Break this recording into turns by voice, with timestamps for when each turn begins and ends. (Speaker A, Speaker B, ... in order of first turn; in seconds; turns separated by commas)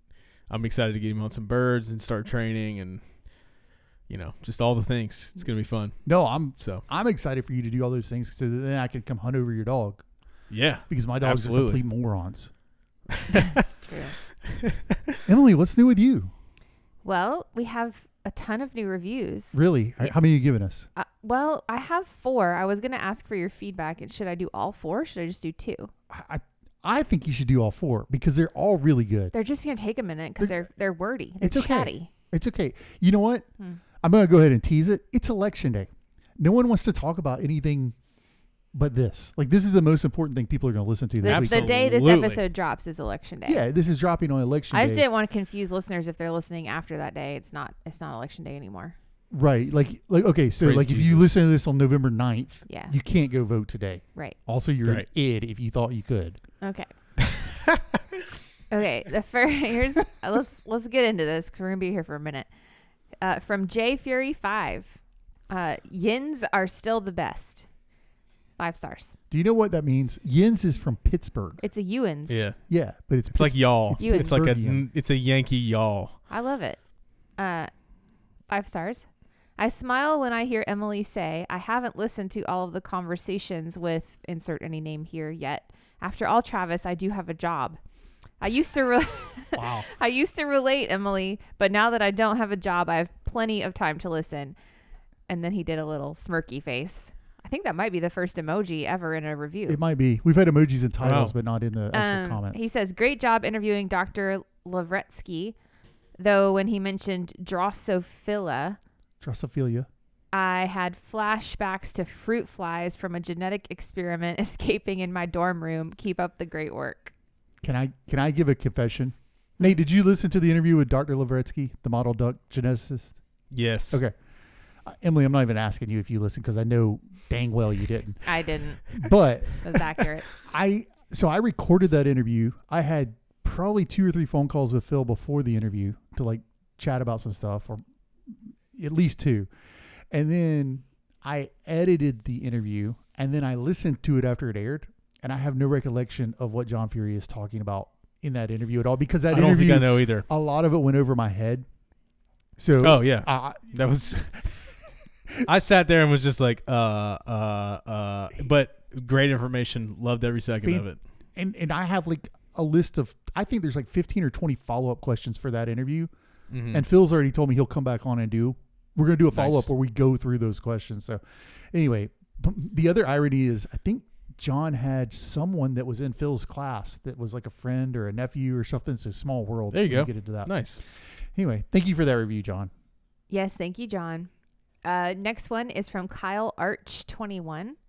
Speaker A: 0.5-3.0, Speaker A: 4.1-6.0, Speaker B: 6.1-10.0, Speaker A: 6.6-6.8, Speaker A: 10.5-11.8, Speaker B: 10.9-12.5, Speaker A: 13.1-13.6, Speaker C: 13.4-14.2, Speaker A: 14.6-15.2, Speaker B: 15.3-16.3, Speaker C: 17.0-19.6, Speaker B: 19.5-20.9, Speaker C: 21.0-25.9, Speaker B: 26.1-29.3, Speaker C: 29.3-32.1, Speaker B: 31.4-33.5, Speaker B: 34.0-38.0, Speaker B: 38.7-41.7, Speaker C: 41.2-43.6, Speaker A: 41.2-42.4, Speaker B: 43.5-45.1, Speaker C: 44.7-49.0, Speaker B: 49.3-56.4, Speaker A: 50.6-51.4, Speaker C: 52.7-52.9, Speaker C: 56.6-56.9, Speaker A: 57.2-58.0, Speaker C: 58.7-62.5, Speaker C: 63.2-65.0, Speaker C: 65.5-67.7, Speaker C: 68.6-69.1, Speaker B: 69.3-71.6, Speaker C: 71.6-72.5, Speaker A: 72.3-72.6, Speaker B: 72.7-74.8, Speaker A: 73.3-76.2, Speaker C: 74.0-74.5, Speaker C: 76.3-76.8, Speaker C: 77.4-77.7, Speaker C: 78.5-79.1, Speaker C: 79.6-87.8, Speaker C: 88.4-94.6, Speaker B: 89.6-89.9, Speaker C: 95.3-99.8, Speaker B: 99.7-102.7, Speaker A: 101.0-101.3, Speaker C: 101.9-105.6, Speaker C: 106.2-108.8, Speaker B: 109.2-109.9, Speaker C: 110.3-117.1, Speaker B: 117.6-123.2, Speaker A: 123.5-124.0, Speaker B: 124.9-128.2, Speaker C: 128.2-128.9, Speaker B: 128.9-129.6, Speaker C: 129.6-130.3, Speaker B: 130.4-139.5, Speaker B: 140.1-151.7, Speaker A: 149.3-150.3, Speaker B: 152.6-154.4, Speaker A: 152.8-154.3, Speaker A: 155.4-161.0, Speaker B: 161.4-166.1, Speaker A: 166.5-166.8, Speaker B: 166.7-171.2, Speaker A: 169.3-169.7, Speaker B: 171.7-180.5, Speaker A: 179.7-180.8, Speaker B: 181.3-182.7, Speaker C: 183.3-184.3, Speaker C: 184.8-187.8